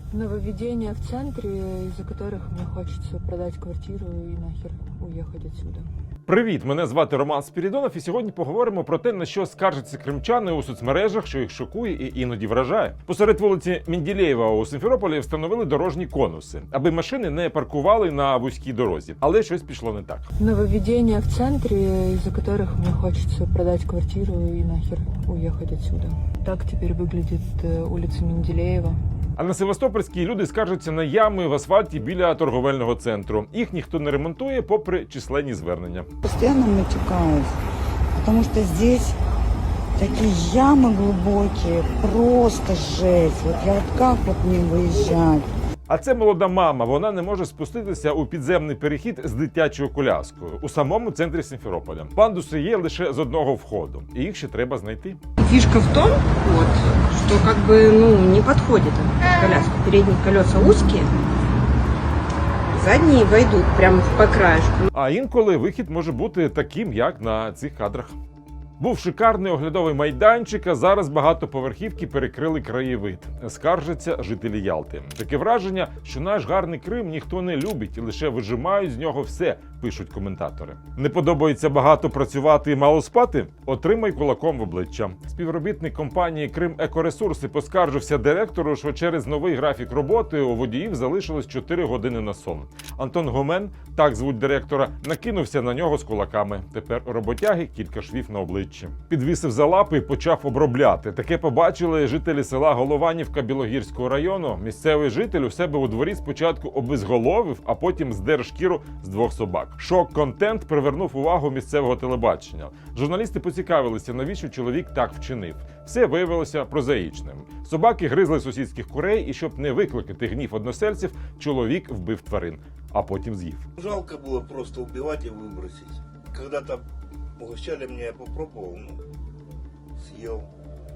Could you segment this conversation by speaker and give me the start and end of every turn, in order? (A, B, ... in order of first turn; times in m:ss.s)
0:00.1-0:05.8 A
0:06.2-0:20.3 B
0:20.4-0:29.0 A
0:29.4-0:36.1 B
0:36.2-0:37.5 C
0:38.2-0:39.2 C
0:40.0-0:45.4 C
0:45.9-0:55.2 B
0:55.4-1:01.1 D
1:02.7-1:04.8 D
1:04.9-1:08.2 B
1:08.8-2:03.7 B
2:03.8-2:06.8 E
2:07.4-2:09.0 E
2:10.0-2:10.4 E